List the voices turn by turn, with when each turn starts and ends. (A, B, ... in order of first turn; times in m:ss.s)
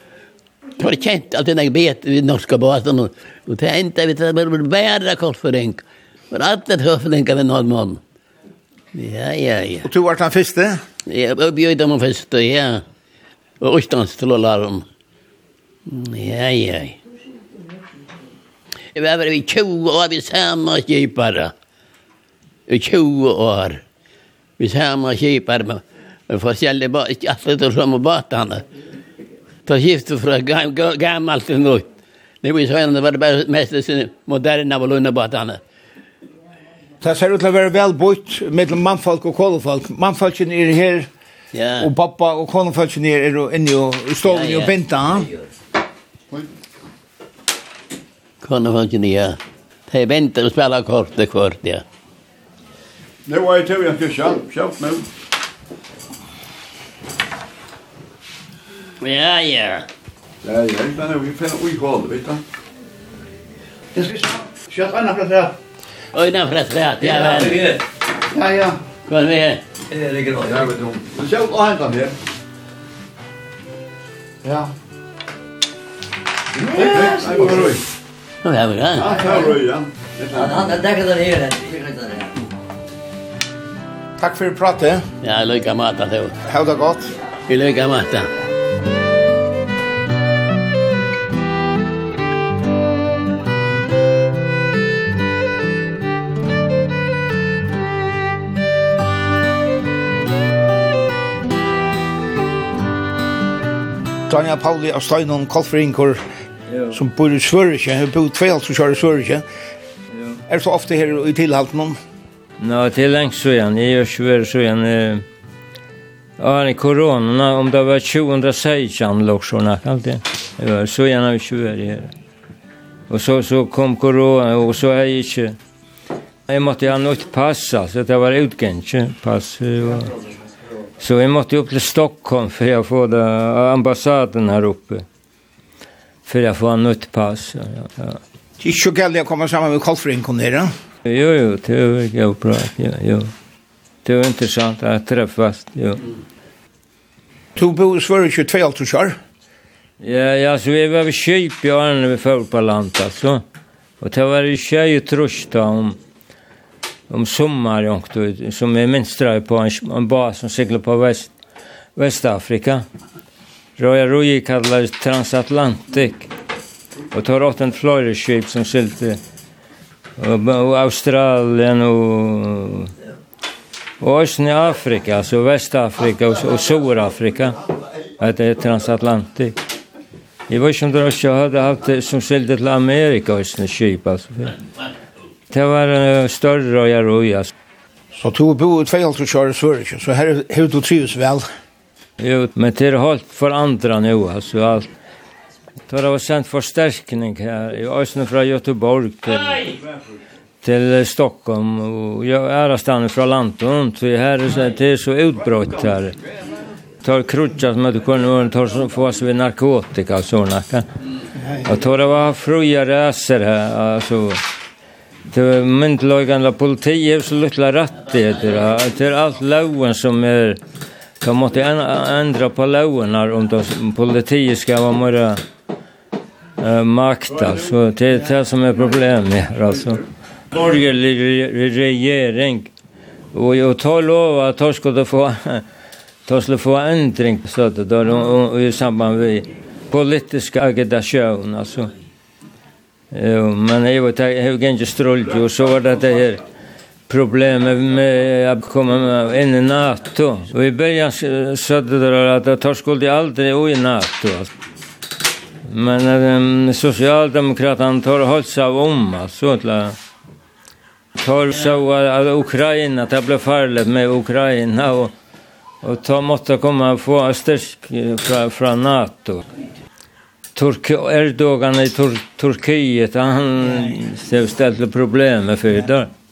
0:00.8-0:08.0 A
0:08.9-0:09.9 A
0:09.8-0:10.8 B
0:11.1-0:12.8 A
0:13.6-0:14.8 A
0:15.9-0:17.0 A
0:18.9-0:21.5 A
0:22.7-0:23.8 A
0:24.6-0:28.6 A
0:29.6-0:31.9 A
0:32.4-0:35.6 A
0:37.0-0:41.1 B
0:41.5-0:41.9 A
0:41.8-0:45.3 B
0:44.2-0:44.8 A
0:48.4-0:49.4 A
0:49.9-0:51.8 A
0:53.2-0:55.0 C
0:59.0-0:59.9 A
1:00.4-1:02.4 C
1:03.9-1:05.5 C
1:06.1-1:07.6 A
1:07.0-1:07.8 D
1:08.3-1:08.8 C
1:09.0-1:09.6 A
1:09.9-1:10.7 D
1:10.4-1:12.2 C
1:14.4-1:14.7 C
1:16.7-1:17.7 D
1:16.7-1:17.8 C
1:18.4-1:19.2 A
1:19.0-1:20.6 C
1:20.3-1:22.4 D
1:24.2-1:25.0 B
1:25.2-1:26.3 A
1:26.4-1:27.1 B
1:27.5-1:28.3 A
1:44.3-1:46.2 B
1:46.9-1:49.4 B
1:50.5-1:52.0 B
1:52.6-1:55.2 E
1:56.4-2:02.1 E
2:03.1-2:05.6 E
2:06.5-2:10.1 E
2:11.0-2:15.0 E
2:16.2-2:18.2 E
2:18.6-2:20.7 B
2:21.0-2:23.3 E
2:24.0-2:26.0 E
2:27.6-2:29.2 B
2:30.0-2:33.4 E
2:34.0-2:36.0 E
2:37.1-2:41.3 E
2:42.0-2:42.8 E
2:43.8-2:46.3 E
2:47.1-2:49.2 E
2:50.2-2:52.9 E
2:54.0-2:57.6 E
2:58.2-2:59.6 E
3:00.5-3:04.6 E
3:05.5-3:07.5 E
3:08.1-3:11.4 B
3:12.2-3:14.9 E
3:15.9-3:19.7 E
3:20.6-3:26.2 E
3:27.0-3:30.8 E
3:31.6-3:34.4 E
3:35.3-3:40.6 E
3:41.2-3:45.4 E
3:46.6-3:52.7 E
3:53.3-3:55.6 E
3:56.2-4:01.9 E
4:03.1-4:06.4 E
4:07.1-4:14.5 E
4:15.7-4:20.0 E
4:21.2-4:25.1 E
4:25.8-4:29.4 E
4:30.5-4:36.1 E